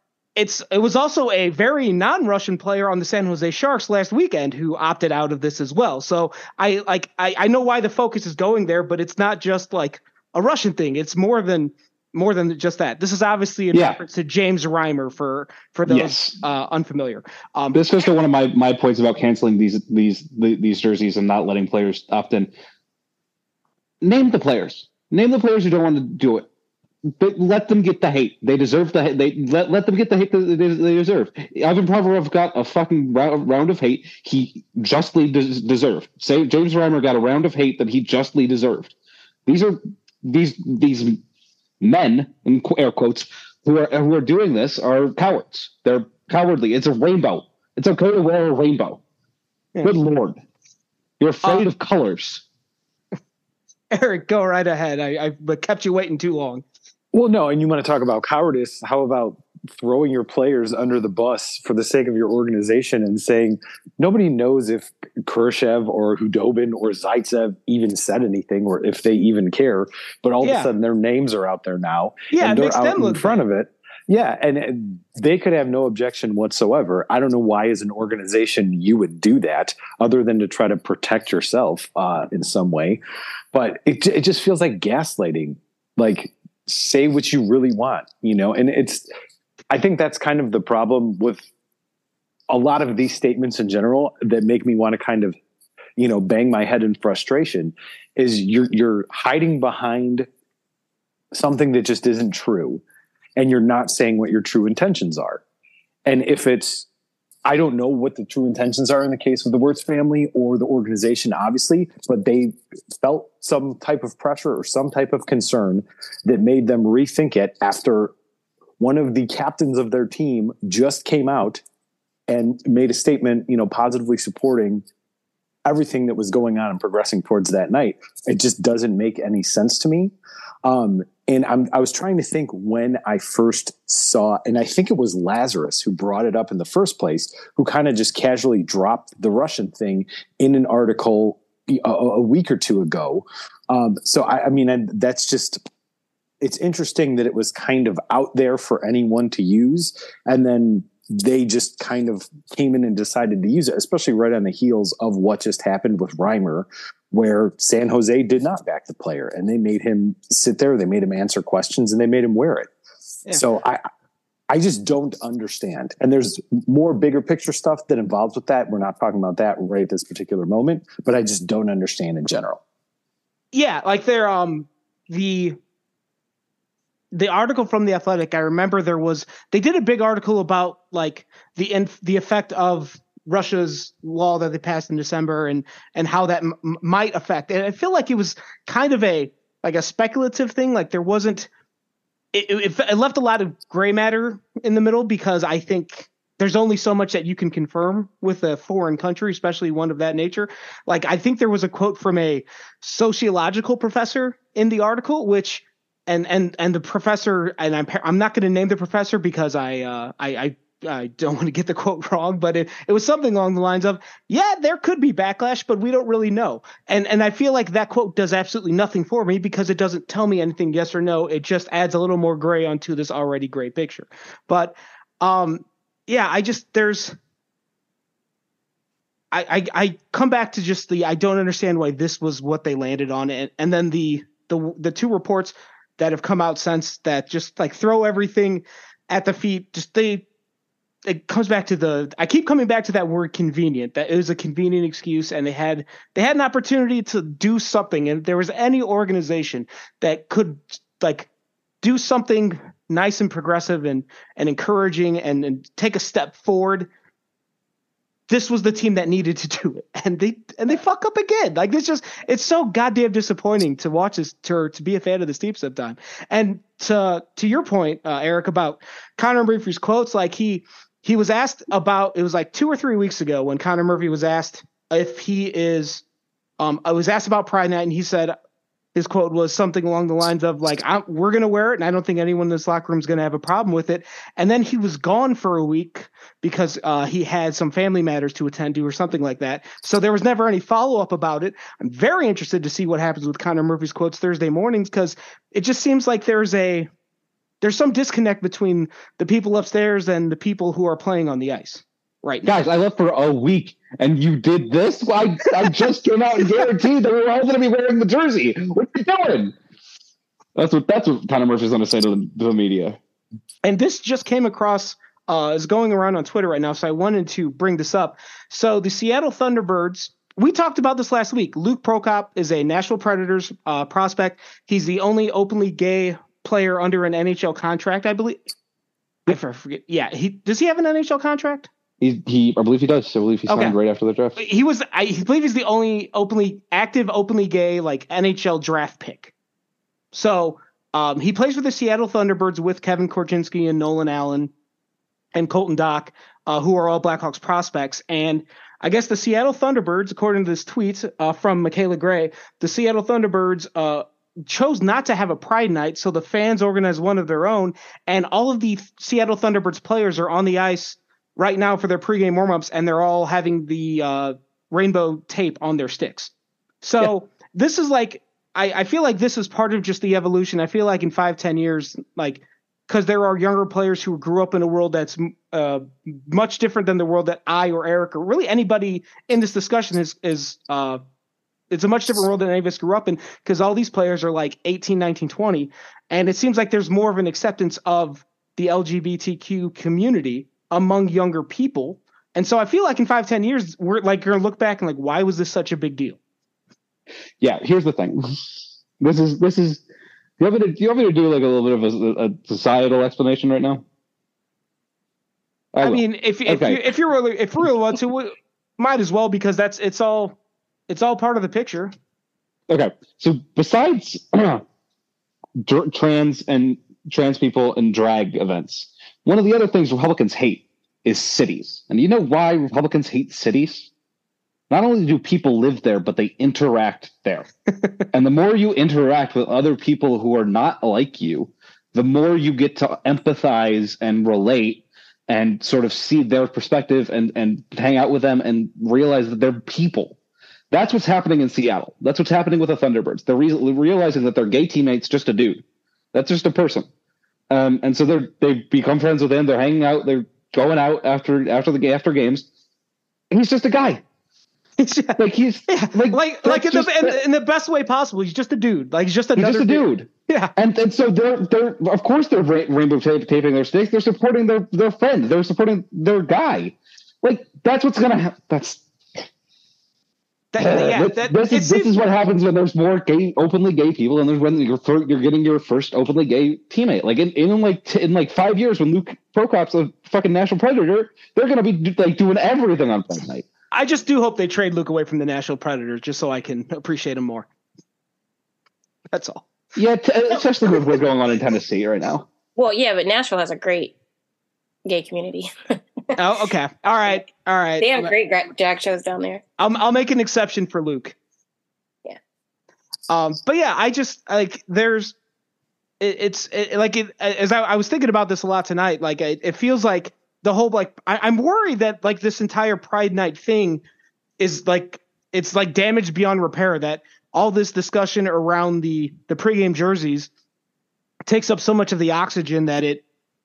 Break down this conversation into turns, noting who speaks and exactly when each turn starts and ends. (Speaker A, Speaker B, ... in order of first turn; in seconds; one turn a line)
Speaker A: 0.4-17.8
Speaker B: 13.7-14.0
Speaker B: 15.9-16.4
Speaker B: 17.7-22.5
Speaker B: 24.0-26.5
Speaker B: 27.2-39.0
Speaker B: 39.5-41.2
Speaker B: 41.8-49.0
Speaker B: 49.8-50.4
Speaker B: 51.2-52.4
Speaker A: 53.9-56.6
Speaker C: 57.1-83.0
Speaker A: 70.4-70.7
Speaker A: 72.3-73.4
Speaker C: 83.5-89.1
Speaker C: 89.7-91.5
Speaker C: 92.5-95.4
Speaker C: 96.0-100.3
Speaker C: 101.3-102.8
Speaker C: 103.4-105.4
Speaker C: 106.0-106.9
Speaker C: 107.5-118.1
Speaker C: 118.8-121.6
Speaker C: 122.3-124.8
Speaker C: 125.7-130.1
Speaker C: 130.6-145.6
Speaker C: 146.4-162.7
Speaker C: 163.3-163.8
Speaker C: 164.5-172.6
Speaker A: 173.5-175.6
Speaker A: 177.1-191.5
Speaker A: 192.3-227.2
Speaker A: 229.3-240.2
Speaker A: 241.1-251.3
Speaker A: 251.8-256.9
Speaker A: 258.3-276.0
Speaker A: 276.6-278.4
Speaker A: 278.9-296.9
Speaker A: 297.6-302.5
Speaker B: 302.5-309.5
Speaker B: 310.6-313.0
Speaker A: 313.6-328.4
Speaker A: 329.3-331.7
Speaker B: 332.0-334.4
Speaker A: 333.5-333.8
Speaker A: 334.4-339.3
Speaker A: 340.1-344.5
Speaker A: 345.3-381.0
Speaker A: 381.7-396.2
Speaker B: 397.4-399.8
Speaker B: 400.4-403.8
Speaker B: 405.8-406.8
Speaker A: 405.8-410.4
Speaker A: 410.9-411.9
Speaker B: 412.7-414.6
Speaker B: 415.6-423.9
Speaker B: 424.7-427.5
Speaker B: 428.1-440.2
Speaker B: 440.7-445.6
Speaker B: 446.1-446.9
Speaker B: 447.5-452.5
Speaker B: 453.3-454.0
Speaker A: 454.8-460.5
Speaker B: 455.2-457.2
Speaker B: 459.4-469.2
Speaker A: 470.5-471.9
Speaker B: 470.6-483.5
Speaker A: 483.7-487.5
Speaker A: 489.1-489.4
Speaker B: 489.8-492.2
Speaker D: 492.6-493.9
Speaker D: 494.8-496.2
Speaker A: 496.2-498.1
Speaker D: 497.8-499.4
Speaker A: 499.6-501.1
Speaker A: 503.1-505.1
Speaker A: 506.0-513.8
Speaker A: 514.4-520.3
Speaker A: 521.3-523.0